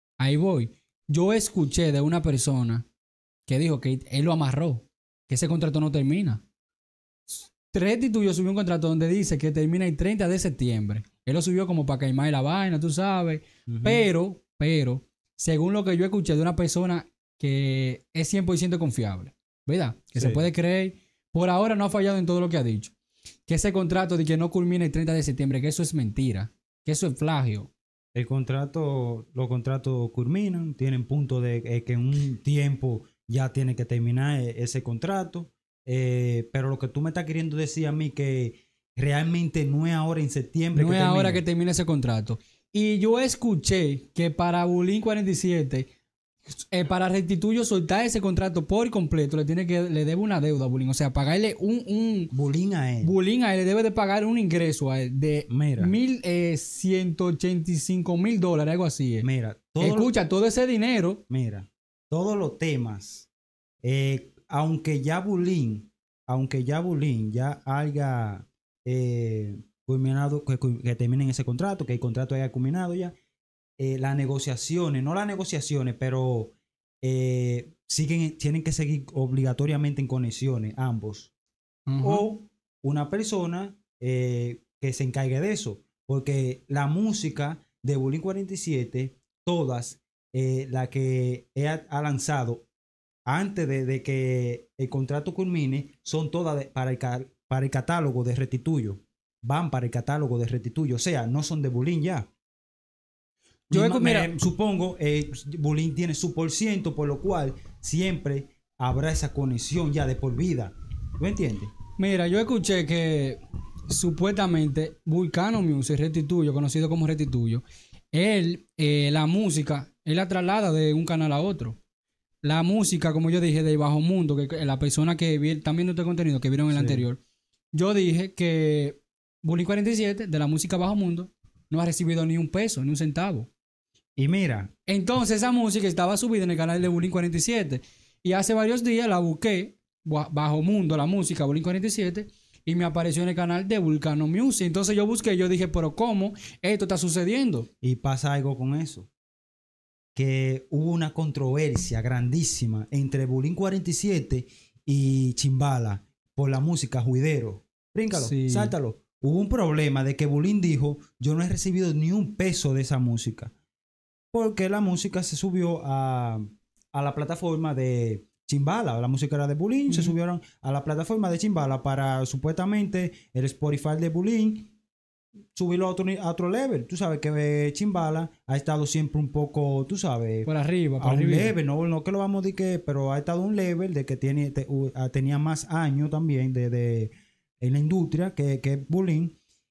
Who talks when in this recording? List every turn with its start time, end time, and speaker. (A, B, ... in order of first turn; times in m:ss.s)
0:00.2-0:02.8 A
0:03.5-0:06.4 A
0:07.7-0:22.9 A
0:13.7-0:14.0 B
0:20.2-0:20.4 B
0:23.5-0:27.7 A
0:28.1-0:41.4 B
0:40.7-0:45.9 A
0:46.5-0:52.3 A
0:52.3-0:53.1 B
0:53.0-0:59.3 A
0:55.5-0:55.9 B
0:59.2-1:00.1 B
0:59.8-1:01.2 A
1:01.3-1:03.3 B
1:03.8-1:13.1 B
1:13.8-1:21.3 B
1:21.9-1:22.2 A
1:22.0-1:32.6 B
1:33.2-1:42.3 B
1:43.7-1:51.7 B
1:43.7-1:44.3 A
1:52.0-2:01.8 A
2:02.4-2:07.2 A
2:06.7-2:07.0 B
2:07.7-2:13.5 A
2:14.2-2:14.7 B
2:14.9-2:27.7 A
2:27.8-2:29.1 B
2:30.1-2:43.5 B
2:38.1-2:38.7 A
2:44.3-2:54.7 B
2:49.9-2:50.2 A
2:55.5-3:00.5 B
3:00.4-3:01.5 A
3:01.0-3:09.3 B